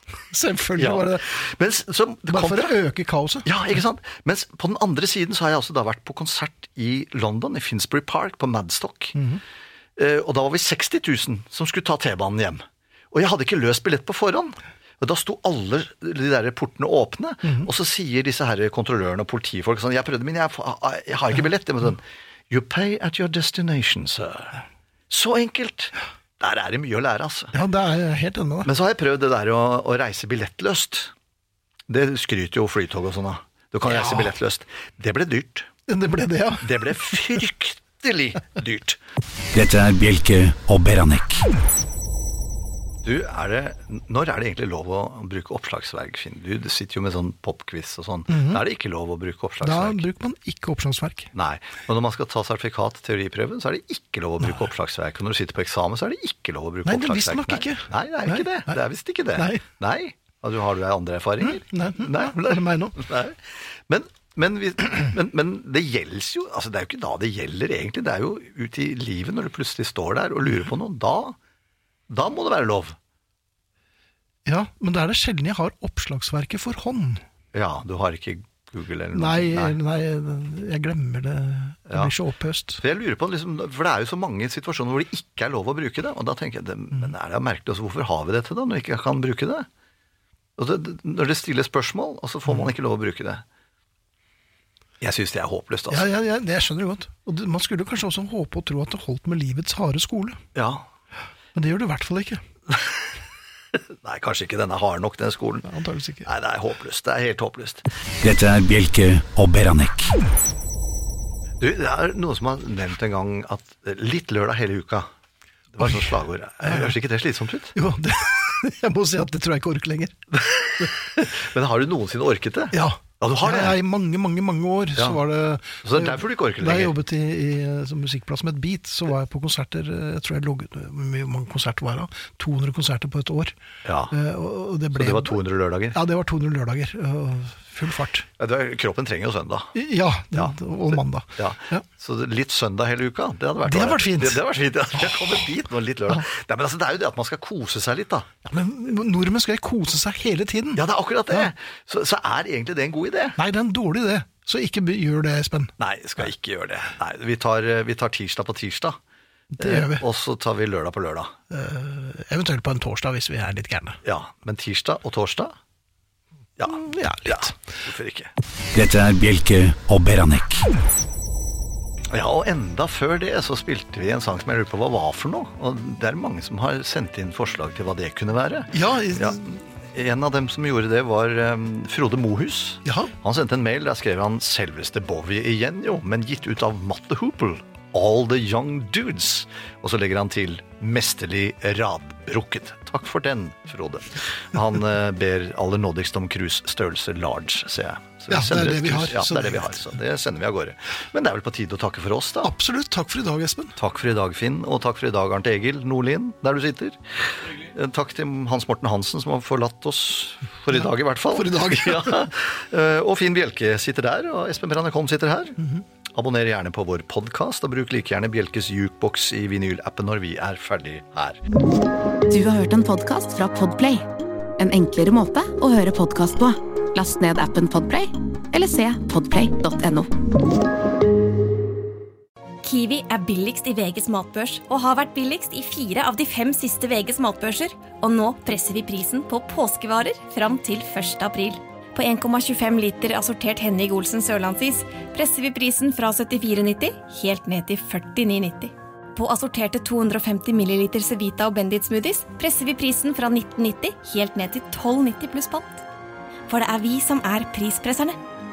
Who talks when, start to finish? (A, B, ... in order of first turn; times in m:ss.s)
0:00.3-0:01.2 A
0:00.8-0:02.7 B
0:02.3-0:03.5 A
0:03.4-0:09.2 B
0:09.1-0:09.4 A
0:10.0-0:27.5 B
0:27.5-0:28.7 A
0:28.6-0:31.1 B
0:31.9-0:35.7 B
0:33.8-0:34.3 A
0:35.9-0:36.8 A
0:36.6-0:39.0 B
0:39.5-0:41.5 C
0:43.0-0:50.0 B
0:48.3-0:48.6 A
0:49.6-0:51.3 A
0:51.3-1:11.4 B
0:56.8-0:58.8 A
0:59.4-0:59.6 A
1:01.4-1:03.0 A
1:12.1-1:13.0 B
1:14.5-1:17.2 A
1:17.5-1:19.8 B
1:19.1-1:22.8 A
1:22.8-1:29.7 B
1:30.6-1:33.4 B
1:35.0-1:36.1 B
1:35.9-1:40.4 A
1:40.5-1:40.9 B
1:41.5-1:42.4 A
1:43.7-1:45.7 B
1:45.6-1:46.3 A
1:46.2-1:47.8 B
1:48.2-1:50.2 C
1:51.6-1:55.1 B
1:55.7-1:57.7 B
1:56.6-1:56.9 A
1:57.7-2:00.1 A
2:00.3-2:03.8 B
2:02.7-2:13.5 A
2:05.8-2:06.9 B
2:13.8-2:14.1 B
2:14.1-2:15.4 A
2:14.9-2:16.0 B
2:15.9-2:18.3 A
2:18.4-2:19.7 B
2:19.7-2:21.8 A
2:21.4-2:28.3 B
2:23.6-2:24.4 A
2:28.4-2:31.5 A
2:30.8-2:33.4 B
2:33.4-2:35.7 A
2:35.8-2:39.0 B
2:39.6-2:40.0 A
2:39.6-2:41.3 B
2:41.5-2:44.0 A
2:44.0-2:45.5 B
2:46.6-2:48.3 B
2:46.7-2:47.5 A
2:48.7-2:50.7 C
2:52.1-3:22.5 B
2:58.7-2:59.5 A
3:02.8-3:03.1 A
3:18.3-3:19.7 A
3:22.4-3:23.8 A
3:23.8-3:35.6 B
3:30.7-3:32.2 A
3:36.1-3:41.4 B
3:42.3-3:44.0 D
3:44.6-3:50.1 D
3:52.6-4:15.8 E
4:16.5-4:18.2 E